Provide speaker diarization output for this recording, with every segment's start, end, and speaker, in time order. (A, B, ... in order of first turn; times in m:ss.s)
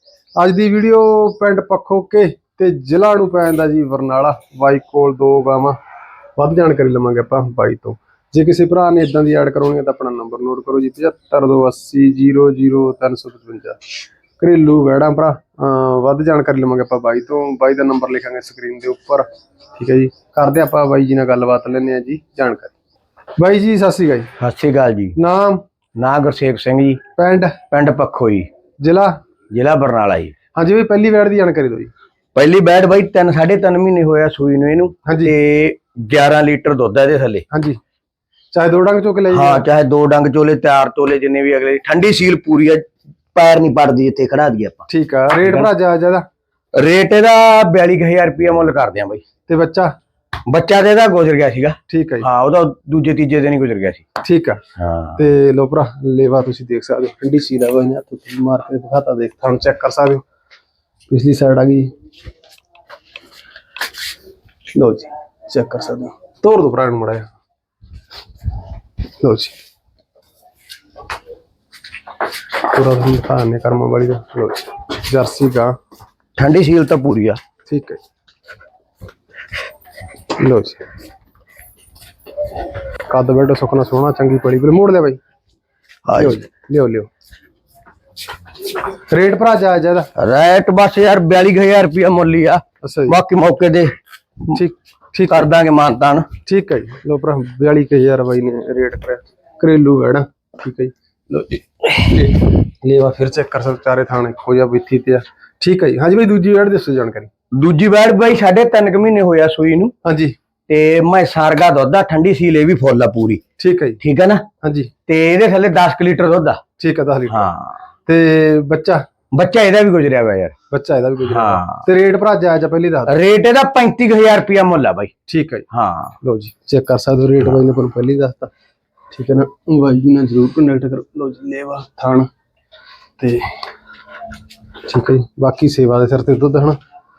0:00.4-0:05.8 A
0:06.4-0:13.8 A
0:14.4-0:22.7 A
0:23.4-0:24.3 A
0:24.4-0:25.2 B
0:25.2-0:25.6 A
0:26.0-0:27.0 B
0:27.2-0:27.6 A
0:27.7-0:28.5 B
0:28.8-0:29.1 A
0:29.5-0:30.3 B
0:30.6-0:31.9 A
0:32.3-0:37.4 B
0:35.0-0:35.3 A
0:37.5-0:37.8 A
0:38.5-0:39.6 A
0:39.3-0:44.8 B
0:44.9-0:46.2 A
0:46.7-0:49.2 B
0:49.5-0:49.9 A
0:50.4-0:54.0 B
0:51.9-0:52.3 A
0:54.2-0:54.6 A
0:54.8-0:55.2 B
0:55.2-1:00.2 A
1:01.1-1:01.9 A
1:04.7-1:07.3 A
1:09.2-1:09.5 A
1:12.7-1:15.7 A
1:16.4-1:17.4 B
1:17.6-1:18.0 A
1:20.4-1:20.8 A
1:23.1-1:25.2 A
1:26.0-1:26.4 B
1:26.1-1:27.1 A
1:29.1-1:30.1 A
1:30.2-1:33.9 B
1:32.8-1:33.2 A
1:34.5-1:35.5 A
1:35.3-1:36.3 B
1:36.4-1:47.3 A
1:47.5-1:49.9 B
1:50.0-1:50.4 A
1:50.7-1:53.4 B
1:53.6-1:54.0 A
1:54.0-1:54.4 B
1:54.6-1:54.9 A
1:55.1-1:56.6 B
1:56.8-1:57.5 A
1:57.3-1:57.8 B
1:58.0-1:59.0 A
1:59.3-2:00.5 B
2:00.7-2:03.2 A
2:01.2-2:01.8 B
2:03.1-2:05.1 B
2:05.3-2:05.6 A
2:05.7-2:06.2 B
2:06.2-2:08.5 A
2:09.1-2:12.3 A
2:13.2-2:13.6 A
2:14.8-2:16.8 A